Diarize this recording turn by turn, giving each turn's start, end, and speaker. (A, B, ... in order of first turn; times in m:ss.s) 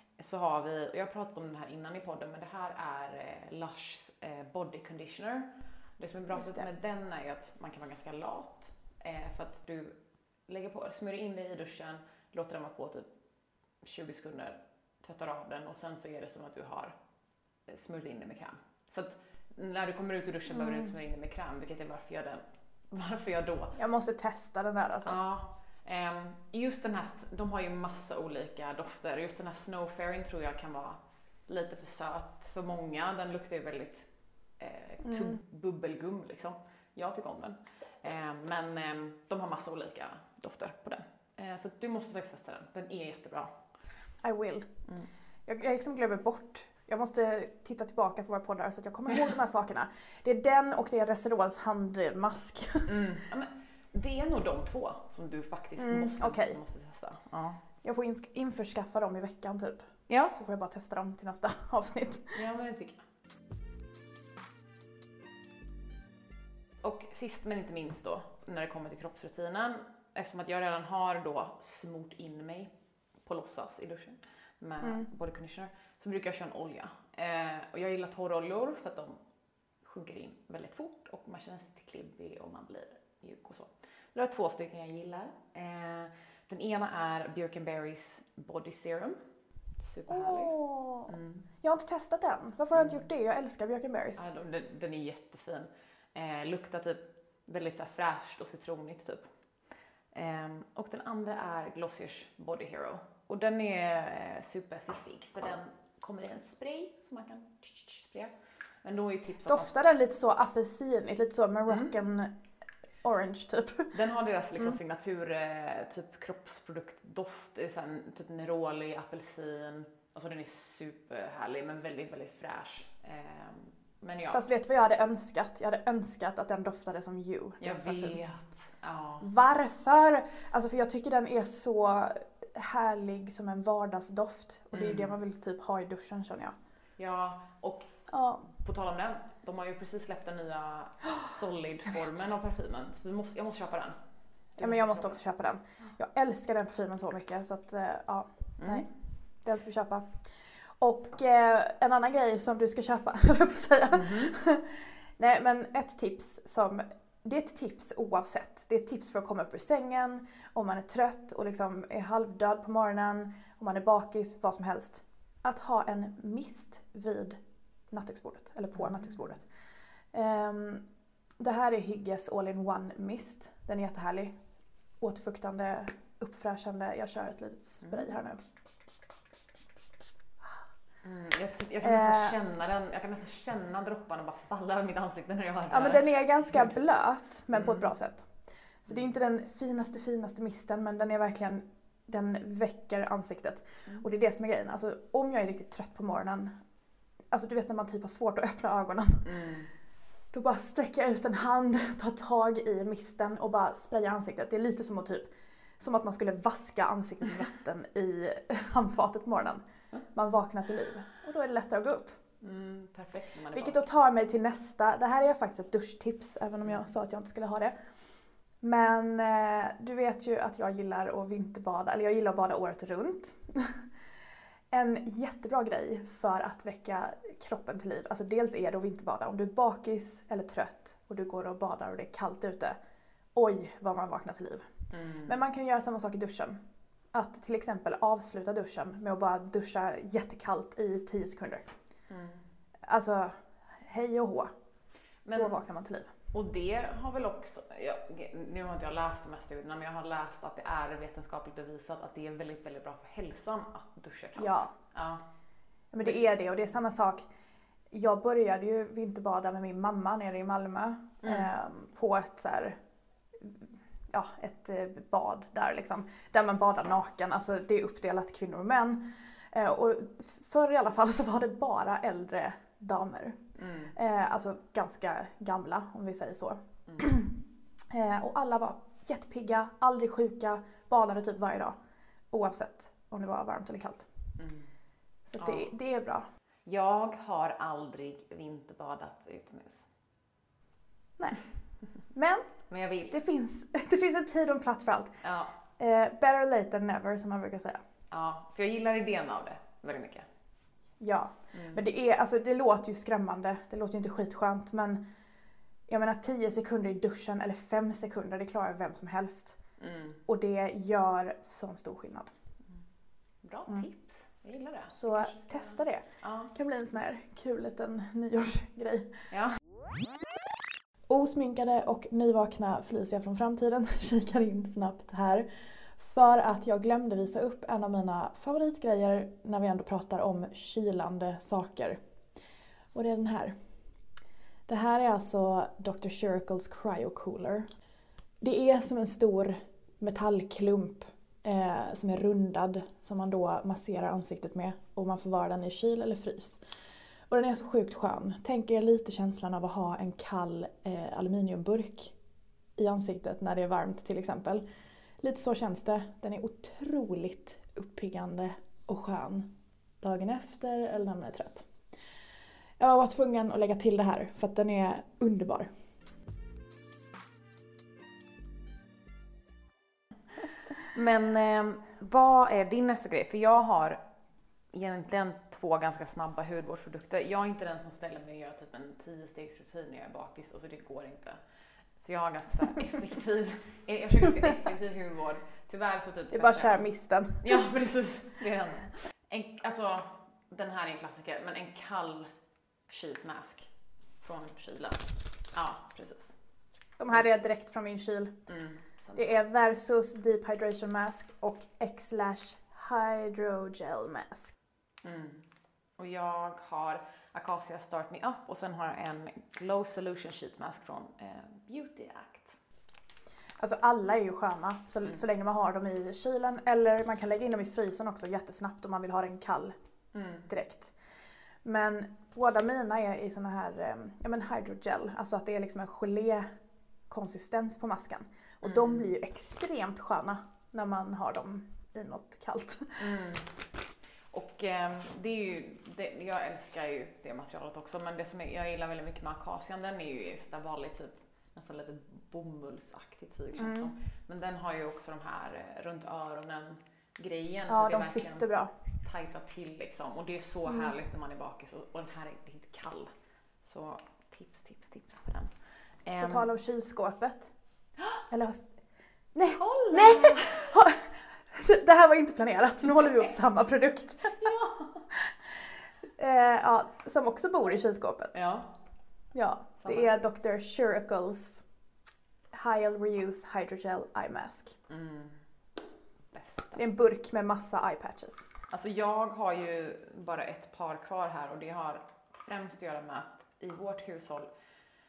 0:00.2-0:13.1 A
0:06.3-0:06.6 B
0:13.8-0:16.9 A
0:17.7-0:23.8 A
0:20.5-0:20.9 B
0:23.8-0:25.2 B
0:25.0-0:34.1 A
0:34.6-0:43.6 A
0:35.0-0:35.4 B
0:44.2-0:44.7 B
0:45.5-0:53.0 B
0:52.9-0:57.6 A
0:55.8-0:56.6 B
0:57.8-1:02.4 B
1:00.1-1:00.4 A
1:02.3-1:03.0 A
1:06.8-1:12.7 A
1:13.2-1:19.2 A
1:14.8-1:15.1 B
1:19.8-1:29.2 A
1:29.8-1:30.6 A
1:30.1-1:34.2 B
1:31.1-1:31.5 A
1:34.2-1:39.3 A
1:40.1-1:49.7 A
1:49.4-1:52.4 B
1:53.0-1:53.9 B
1:53.9-2:04.5 A
2:04.3-2:08.2 B
2:07.6-2:09.3 A
2:09.2-2:16.6 B
2:14.7-2:15.1 A
2:17.0-2:17.9 A
2:18.1-2:18.5 B
2:18.5-2:24.0 A
2:24.6-2:25.2 A
2:24.6-2:30.2 B
2:28.6-2:28.9 A
2:30.8-2:47.4 B
2:33.9-2:34.4 A
2:47.9-2:49.5 B
2:50.1-2:50.8 B
2:51.4-2:54.4 B
2:55.0-2:58.4 B
3:01.0-3:06.7 A
3:01.8-3:02.4 B
3:05.7-3:08.3 B
3:07.5-3:07.9 A
3:08.8-3:16.5 B
3:17.3-3:19.3 B
3:19.2-3:19.7 A
3:20.3-3:29.6 B
3:30.1-3:32.2 B
3:32.4-3:33.8 A
3:33.5-3:37.7 B
3:38.6-3:43.8 B
3:44.7-3:52.8 B
3:53.4-3:54.7 B
3:54.9-3:55.3 A
3:55.3-3:56.6 B
3:57.1-4:01.7 B
4:02.1-4:02.5 A
4:02.9-4:04.5 B
4:05.2-4:05.6 A
4:05.4-4:06.1 B
4:06.3-4:15.2 A
4:14.4-4:14.7 B
4:15.9-4:17.3 B
4:17.9-4:22.8 B
4:21.2-4:21.5 A
4:23.4-4:33.4 B
4:33.6-4:34.0 A
4:33.9-4:41.8 B
4:42.3-4:44.1 B
4:44.4-4:44.7 A
4:45.3-4:46.3 B
4:45.4-4:45.7 A
4:46.7-4:49.9 A
4:51.2-4:51.4 B
4:52.1-4:55.2 B
4:52.7-4:53.2 A
4:55.2-4:55.6 A
4:55.8-4:57.8 B
4:58.1-5:00.3 A
5:01.0-5:05.0 B
5:01.5-5:01.8 A
5:05.9-5:09.6 B
5:09.8-5:10.2 A
5:10.3-5:12.3 B
5:13.4-5:16.5 A
5:14.9-5:19.2 B
5:19.3-5:19.6 A
5:21.1-5:32.0 B
5:32.9-5:33.6 B
5:34.7-5:37.7 B
5:38.4-5:46.6 B
5:47.3-5:52.2 B
5:52.8-5:54.6 B
5:55.2-5:59.5 B
6:00.0-6:01.7 B
6:02.8-6:05.7 B
6:10.7-6:14.0 A
6:14.7-6:21.4 A
6:22.0-6:26.9 A
6:26.3-6:27.7 B
6:27.4-6:32.3 A
6:32.9-6:33.7 A
6:34.2-6:36.4 A
6:37.0-6:38.5 B
6:38.5-6:39.4 A
6:39.2-6:44.5 B
6:45.0-6:45.5 A
6:46.0-6:52.6 A
6:53.6-6:59.8 B
7:00.1-7:00.5 A
7:00.5-7:00.9 B
7:01.6-7:06.5 B
7:07.1-7:13.2 B
7:08.6-7:09.1 A
7:13.0-7:13.5 A
7:14.3-7:28.5 A
7:23.6-7:23.9 B
7:27.7-7:28.7 B
7:29.0-7:33.1 A
7:33.7-7:35.5 A
7:36.1-7:36.5 A
7:36.2-7:37.5 B
7:38.3-7:38.7 B
7:39.4-7:44.5 B
7:39.5-7:40.8 A
7:44.4-7:45.1 A
7:46.2-7:48.3 B
7:48.3-7:48.7 A
7:49.3-7:51.6 B
7:49.8-7:50.1 A
7:52.5-7:54.8 B
7:54.9-7:55.4 A
7:56.3-7:56.8 A
7:56.7-7:58.5 B
7:58.7-8:04.5 A